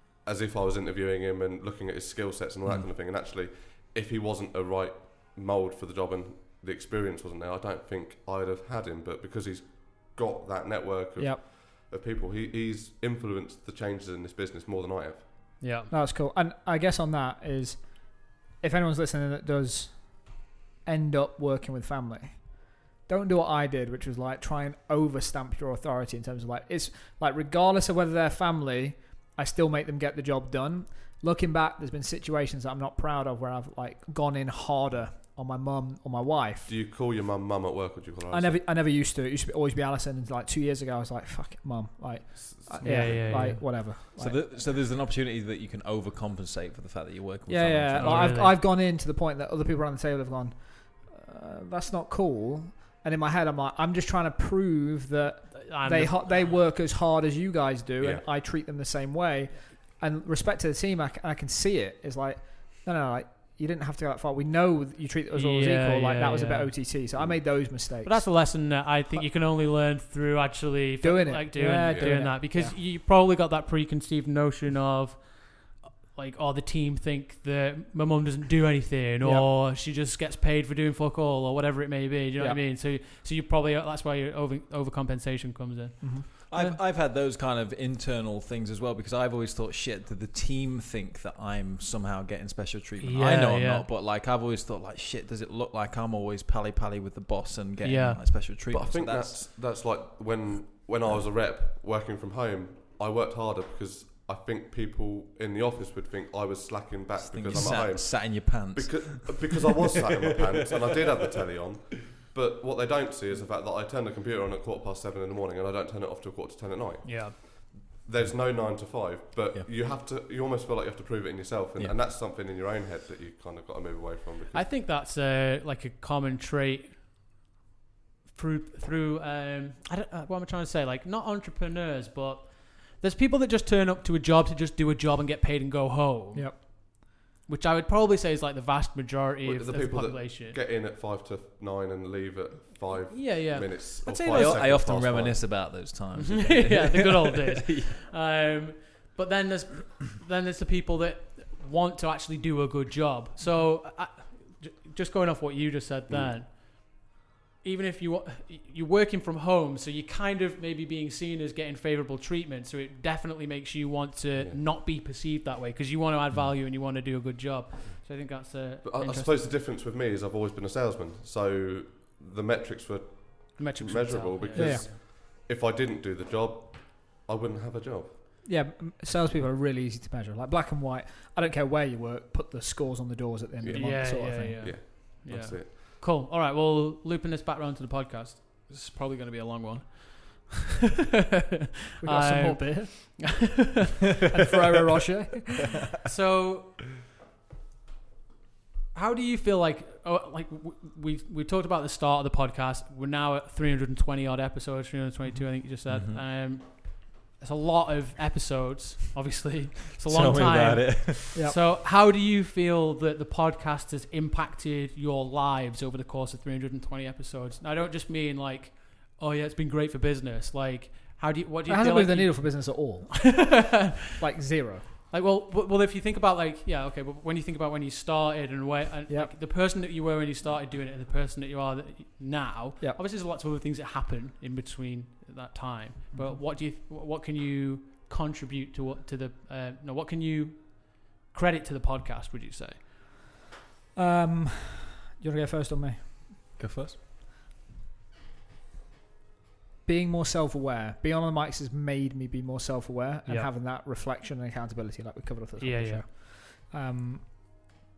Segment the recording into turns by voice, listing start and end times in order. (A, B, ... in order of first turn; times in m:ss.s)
0:00.2-0:15.3 A
0:11.2-0:11.4 B
0:15.6-0:15.9 C
0:15.9-0:36.7 B
0:36.7-0:38.6 A
0:38.3-0:44.6 B
0:42.4-0:43.2 A
0:42.8-0:43.6 C
0:43.2-0:48.4 D
0:47.5-1:09.3 B
0:48.0-0:48.6 C
0:55.6-0:56.6 C
0:58.0-0:58.2 A
1:05.3-1:06.9 C
1:07.6-1:26.8 C
1:11.0-1:12.8 B
1:11.9-1:12.1 A
1:19.2-1:19.5 B
1:26.5-1:39.5 D
1:33.0-1:33.8 C
1:37.8-1:38.4 C
1:38.5-2:04.6 A
1:47.2-1:49.6 D
1:57.0-1:57.7 C
2:04.5-2:07.0 C
2:08.3-2:20.6 C
2:16.3-2:16.6 B
2:19.4-2:25.5 A
2:23.1-2:24.6 C
2:24.2-2:27.9 D
2:26.1-2:49.5 C
2:36.1-2:36.3 A
2:48.8-2:58.1 A
2:53.6-2:55.0 C
2:54.5-2:54.9 B
2:58.4-3:04.6 B
3:03.6-3:05.8 A
3:03.7-3:10.7 C
3:11.4-3:14.0 C
3:12.0-3:13.2 B
3:14.3-3:15.6 B
3:16.0-3:16.9 C
3:18.9-3:43.9 C
3:25.9-3:26.2 D
3:30.0-3:31.4 D
3:41.7-3:43.5 B
3:44.2-3:44.9 B
3:45.1-4:02.8 C
3:49.1-3:49.3 B
4:03.9-4:06.1 B
4:06.6-4:07.0 D
4:09.8-4:17.7 B
4:15.6-4:16.0 C